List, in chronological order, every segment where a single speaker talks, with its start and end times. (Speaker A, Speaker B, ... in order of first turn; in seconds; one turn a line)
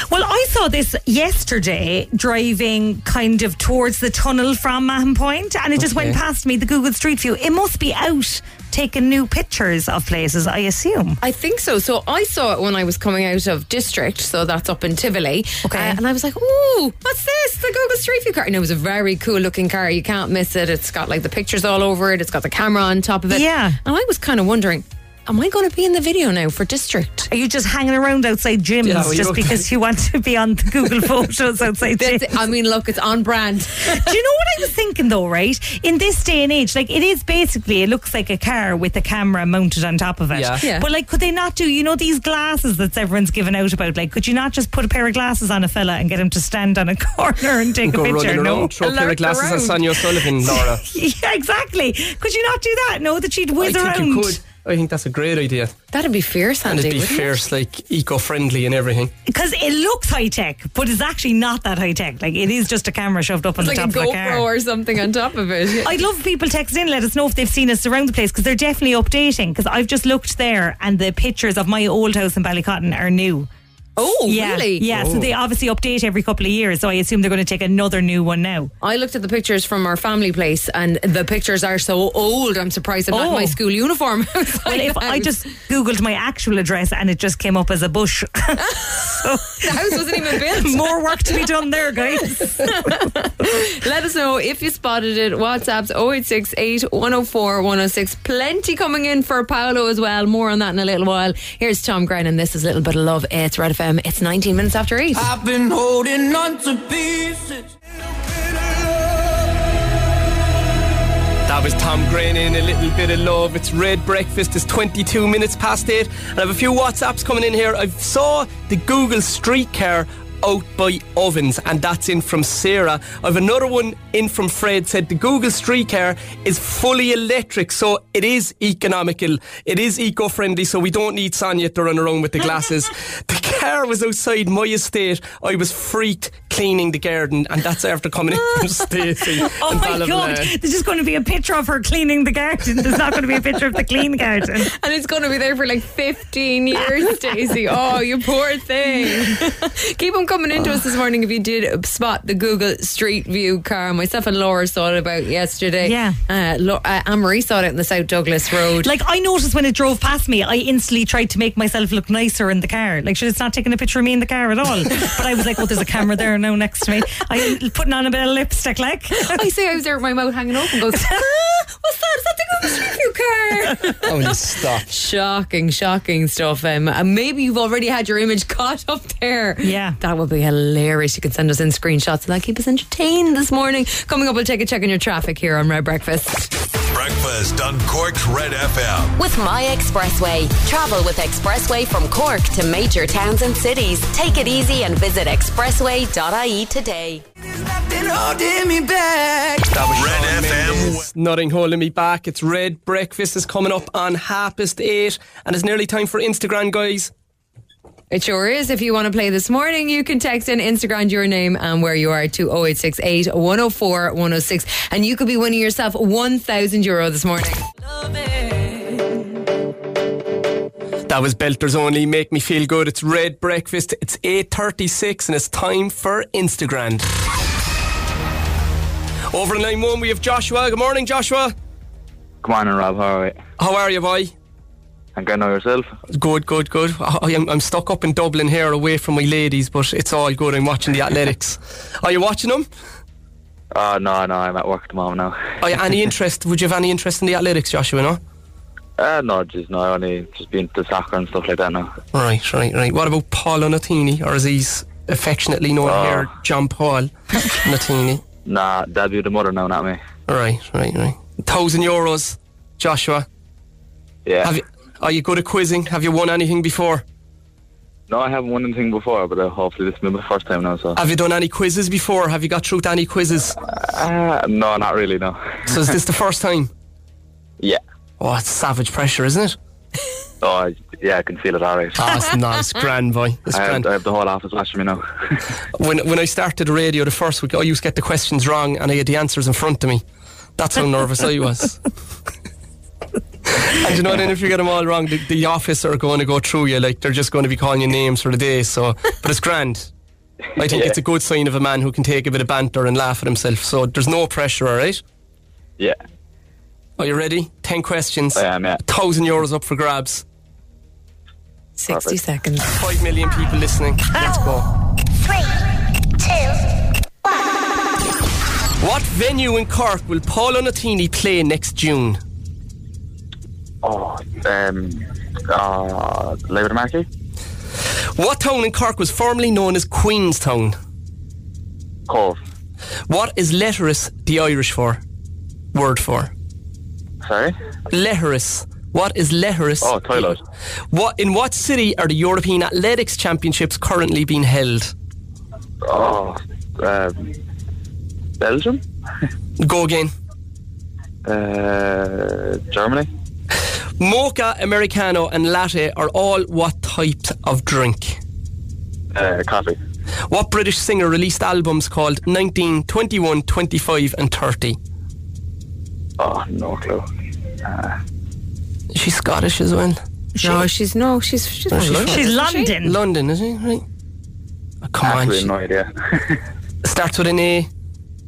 Speaker A: 0.1-11.2
Speaker B: 5.8-6.2
Speaker C: 11.2-27.3
Speaker A: 15.6-16.0
Speaker A: 23.3-23.8
Speaker A: 27.3-32.4
Speaker B: 28.8-29.6
Speaker C: 32.0-34.1
Speaker A: 33.9-48.7
Speaker B: 40.3-40.6
Speaker C: 40.6-40.9
Speaker B: 47.8-50.8
Speaker C: 48.8-50.5
Speaker A: 50.5-54.4
Speaker B: 53.6-55.7
Speaker C: 55.9-57.4
Speaker B: 56.6-59.1
Speaker A: 59.3-64.5
Speaker C: 63.6-66.0
Speaker A: 65.8-73.5
Speaker C: 74.0-75.3
Speaker A: 74.3-78.7
Speaker C: 78.8-85.3
Speaker A: 83.1-83.6
Speaker A: 84.6-89.7
Speaker C: 89.6-91.4
Speaker A: 90.3-92.8
Speaker C: 92.3-105.3
Speaker D: 105.1-107.7
Speaker B: 111.5-140.5
Speaker A: 139.2-144.7
Speaker C: 144.6-158.9
Speaker A: 155.8-156.2
Speaker A: 158.8-169.4
Speaker C: 169.2-174.3
Speaker B: 174.0-174.8
Speaker C: 174.8-186.5
Speaker A: 179.6-180.0
Speaker E: 186.9-189.1
Speaker F: 189.2-197.2
Speaker D: 197.4-199.7
Speaker B: 199.7-207.1
Speaker E: 199.9-201.1
Speaker C: 208.1-217.6
Speaker B: 221.1-227.0
Speaker B: 229.3-231.5
Speaker G: 232.4-233.4
Speaker B: 233.6-234.3
Speaker G: 235.2-235.9
Speaker B: 236.1-242.7
Speaker G: 243.7-245.4
Speaker B: 245.6-248.2
Speaker G: 249.0-251.9
Speaker B: 252.1-258.2
Speaker G: 255.8-256.3
Speaker G: 258.4-260.0
Speaker B: 260.3-263.2
Speaker G: 264.2-264.5
Speaker B: 264.4-267.0
Speaker G: 268.1-271.0
Speaker B: 270.9-273.5
Speaker G: 273.6-275.4
Speaker B: 275.7-276.7
Speaker B: 278.2-279.6
Speaker G: 280.4-282.3
Speaker B: 282.0-283.9
Speaker G: 283.5-285.0
Speaker B: 285.7-290.0
Speaker B: 290.6-291.8
Speaker B: 293.5-299.9
Speaker B: 300.6-305.0
Speaker G: 300.6-300.9
Speaker B: 307.0-310.2
Speaker G: 308.3-308.8
Speaker C: 311.8-312.7
Speaker G: 311.9-312.2
Speaker B: 312.7-314.7
Speaker B: 318.8-322.2
Speaker G: 323.8-327.1
Speaker B: 328.1-330.8
Speaker G: 332.1-332.4
Speaker B: 333.1-335.0
Speaker B: 335.7-336.3
Speaker G: 337.2-337.5
Speaker B: 337.9-340.4
Speaker G: 339.8-340.4
Speaker B: 340.9-344.9
Speaker G: 345.9-347.3
Speaker G: 348.4-348.8
Speaker B: 349.6-350.1
Speaker G: 351.2-353.1
Speaker B: 354.0-358.2
Speaker G: 359.1-359.8
Speaker B: 360.3-364.8
Speaker G: 366.2-367.0
Speaker G: 367.6-368.0
Speaker B: 368.9-370.0
Speaker A: 370.4-370.6
Speaker C: 370.4-372.7
Speaker B: 371.7-372.2
Speaker A: 372.1-373.0
Speaker B: 372.8-373.8
Speaker B: 374.8-375.5
Speaker G: 375.0-376.4
Speaker B: 376.8-377.7